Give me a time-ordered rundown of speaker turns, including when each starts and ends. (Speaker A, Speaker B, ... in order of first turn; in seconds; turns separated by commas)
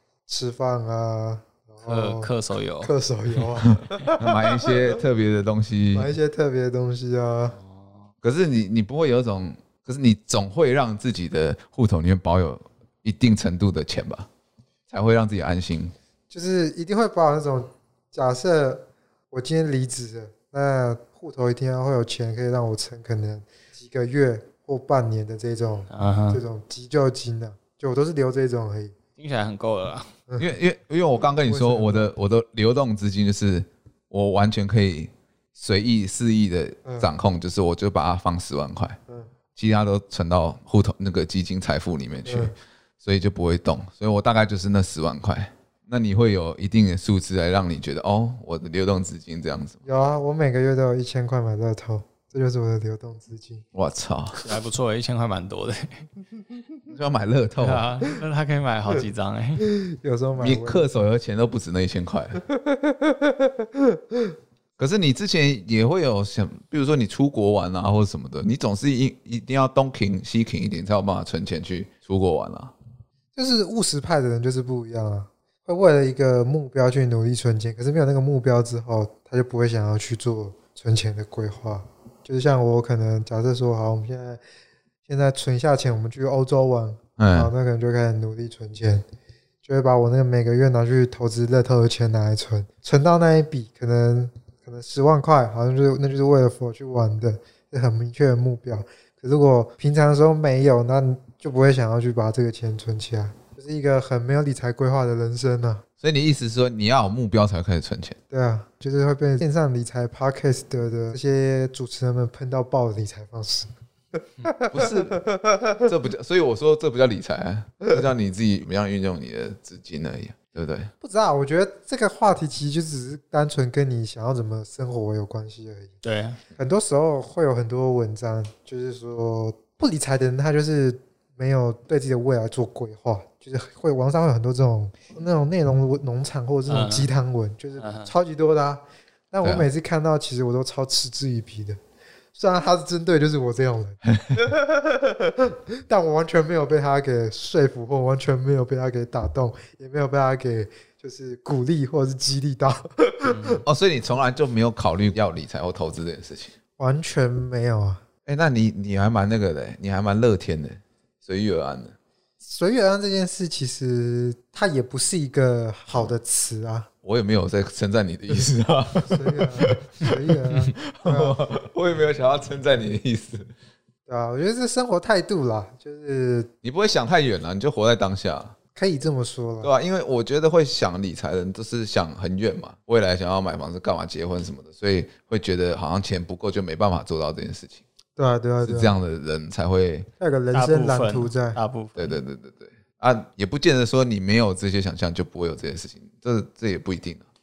Speaker A: 0.3-4.9, Speaker B: 1.9-3.5, Speaker C: 4.2-6.1, Speaker A: 5.9-7.6, Speaker B: 7.6-8.1, Speaker C: 8.2-14.3, Speaker C: 14.9-15.9, Speaker A: 16.3-28.9, Speaker B: 25.9-26.4, Speaker B: 29.2-30.1, Speaker C: 30.4-39.0, Speaker A: 31.4-32.1, Speaker A: 36.9-37.1, Speaker C: 39.6-49.8, Speaker A: 42.2-42.5, Speaker A: 49.9-53.6, Speaker C: 53.7-54.4, Speaker B: 54.4-56.1, Speaker C: 56.9-57.9, Speaker B: 57.6-59.7, Speaker A: 59.6-60.9, Speaker C: 60.4-62.4, Speaker A: 62.5-64.3, Speaker C: 64.8-72.7, Speaker A: 73.4-84.4, Speaker A: 85.1-89.0, Speaker C: 87.2-87.5, Speaker A: 89.6-105.8, Speaker C: 106.0-108.2, Speaker A: 108.3-115.8, Speaker C: 114.7-115.2, Speaker C: 115.8-120.9, Speaker A: 121.0-125.9, Speaker B: 126.0-126.4, Speaker A: 126.6-141.8, Speaker B: 136.7-137.1, Speaker B: 137.8-138.1, Speaker C: 139.4-139.7, Speaker A: 142.3-153.6, Speaker C: 144.1-144.5, Speaker B: 153.3-153.6, Speaker C: 153.7-156.6, Speaker A: 156.8-158.0, Speaker C: 158.3-162.0, Speaker A: 162.4-166.9, Speaker C: 167.0-170.1, Speaker A: 169.0-171.4, Speaker C: 170.8-173.5, Speaker A: 174.1-176.5, Speaker C: 176.6-178.5, Speaker A: 178.8-179.7, Speaker C: 179.6-187.8, Speaker A: 188.2-189.0, Speaker C: 188.6-190.1, Speaker A: 190.2-191.6, Speaker B: 190.5-192.2, Speaker C: 192.0-197.2